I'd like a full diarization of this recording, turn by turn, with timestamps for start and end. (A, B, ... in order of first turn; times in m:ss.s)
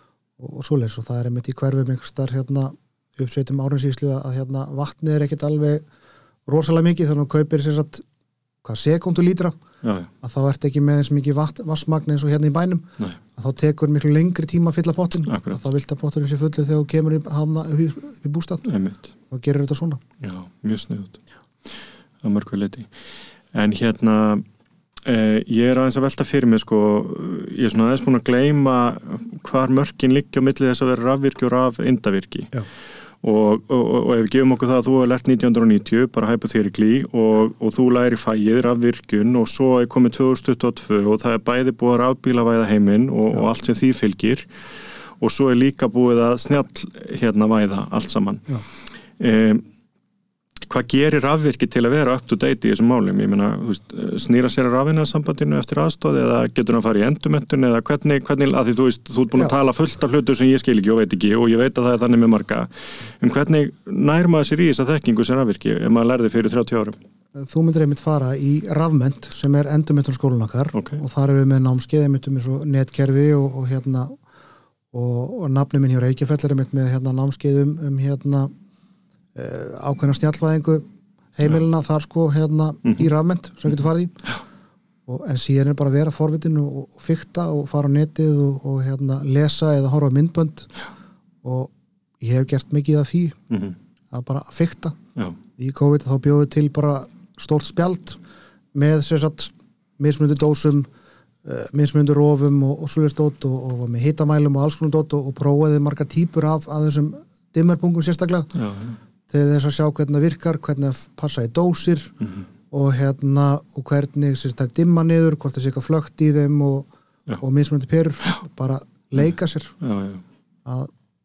0:00.4-0:05.8 A
0:06.5-0:08.0 A
0:08.6-0:09.6 A
0:09.8-0:10.1 B
0:10.2-0:18.6 A
0:15.3-0:15.6 B
0:18.6-0:19.1 B
0:19.3-0:20.0 A
0:20.2-0:21.7 B
0:22.2-0:22.9 B
0:23.5-0:24.4 B
0:25.0-0:32.6 B
0:33.2-0:44.5 B
0:45.2-0:48.6 B
0:49.2-0:49.7 B
0:50.7-1:07.0 B
1:07.3-1:14.2 A
1:10.8-1:11.0 B
1:14.9-1:18.5 A
1:19.4-1:20.8 A
1:21.4-1:24.2 A
1:25.1-1:30.7 A
1:31.4-1:33.4 A
1:33.5-1:33.8 B
1:34.1-1:35.0 A
1:35.6-1:38.2 A
1:38.8-1:40.9 A
1:41.4-1:48.5 A
1:48.6-1:49.0 B
1:49.3-1:52.1 A
1:52.7-1:56.9 A
1:57.4-1:59.7 A
1:59.8-2:00.2 B
2:00.6-2:00.9 A